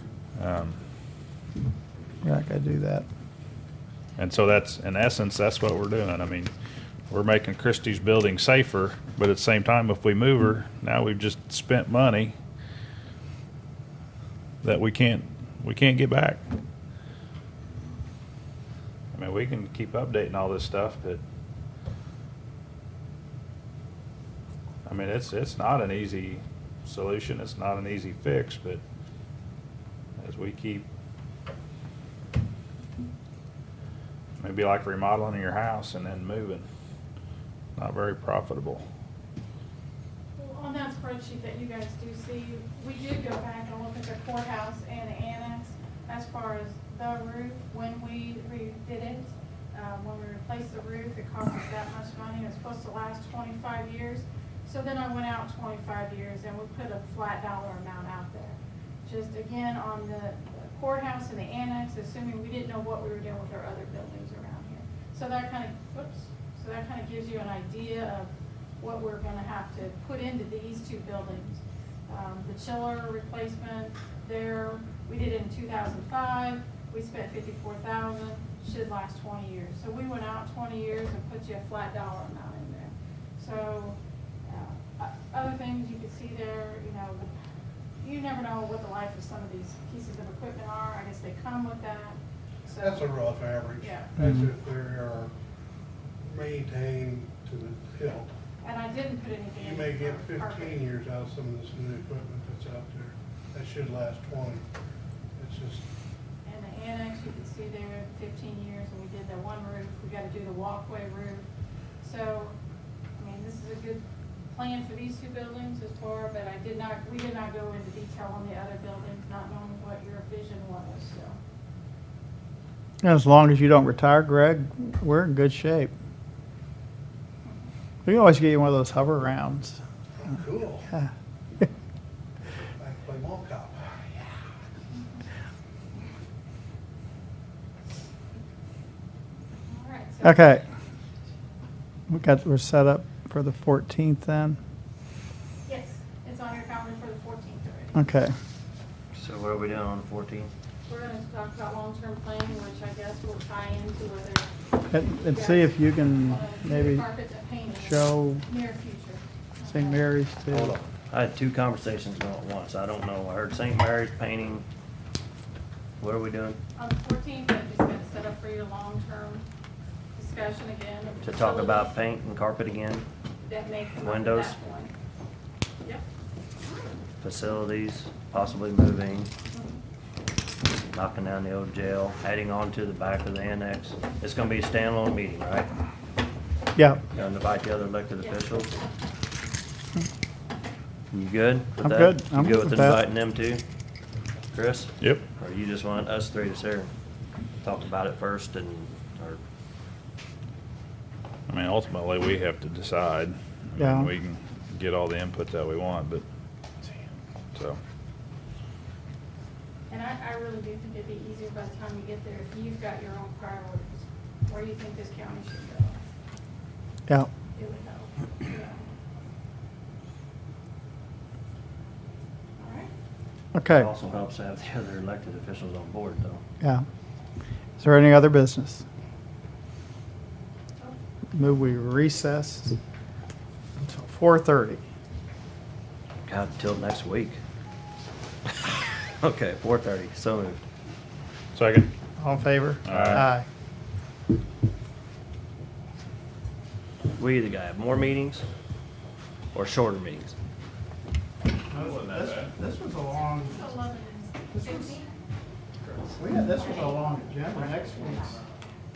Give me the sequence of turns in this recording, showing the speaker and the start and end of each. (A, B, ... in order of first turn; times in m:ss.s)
0:00.4-0:00.8 A
0:02.2-0:03.0 B
0:04.2-0:06.5 A
0:07.1-0:12.3 A
0:14.6-0:16.4 A
0:19.1-0:21.2 A
0:24.8-0:28.8 A
0:30.2-0:30.9 A
0:34.4-0:36.6 A
0:37.8-0:38.8 A
0:40.4-1:27.3 C
1:28.0-1:33.1 C
1:32.8-1:35.3 D
1:33.8-1:34.2 C
1:36.2-1:38.3 D
1:38.6-1:40.8 C
1:39.6-1:44.6 D
1:45.4-1:45.8 D
1:46.4-1:51.4 C
1:52.0-1:52.6 C
1:53.2-2:01.4 C
2:03.0-2:05.9 B
2:08.0-2:09.8 B
2:10.2-2:10.9 D
2:12.8-2:14.3 D
2:19.7-2:20.4 C
2:20.2-2:20.6 B
2:22.1-2:24.6 B
2:25.6-2:28.0 C
2:27.9-2:28.3 B
2:29.1-2:30.5 E
2:30.9-2:40.0 C
2:34.9-2:37.0 B
2:37.7-2:38.4 B
2:39.7-2:40.8 B
2:40.5-2:44.6 E
2:46.0-2:46.6 E
2:46.8-2:49.4 C
2:50.2-2:52.0 C
2:51.2-2:53.1 E
2:53.4-2:54.9 C
2:54.0-2:54.6 E
2:57.2-2:59.3 E
3:00.9-3:05.7 E
3:06.8-3:07.0 B
3:07.1-3:08.8 E
3:08.2-3:08.8 C
3:11.1-3:13.6 E
3:11.8-3:13.0 B
3:14.5-3:16.9 E
3:15.0-3:15.2 A
3:17.6-3:19.4 E
3:21.5-3:26.2 A
3:23.8-3:24.1 B
3:27.5-3:27.8 A
3:29.9-3:36.0 C
3:37.5-3:38.8 C
3:42.6-3:42.9 C
3:43.5-3:43.9 B
3:43.7-3:46.4 E
3:46.6-3:46.8 B
3:47.8-3:48.8 B
3:51.3-3:52.8 B
3:53.8-3:54.8 B
3:56.2-3:57.4 E
3:58.5-4:00.6 E
4:01.5-4:01.9 A
4:02.2-4:03.4 B
4:02.8-4:03.3 A
4:07.2-4:08.4 E
4:09.5-4:10.3 E
4:11.7-4:13.6 B
4:11.7-4:12.5 A
4:13.4-4:15.1 C
4:14.5-4:15.0 B
4:15.8-4:17.1 C
4:16.2-4:18.3 B
4:17.8-4:18.1 C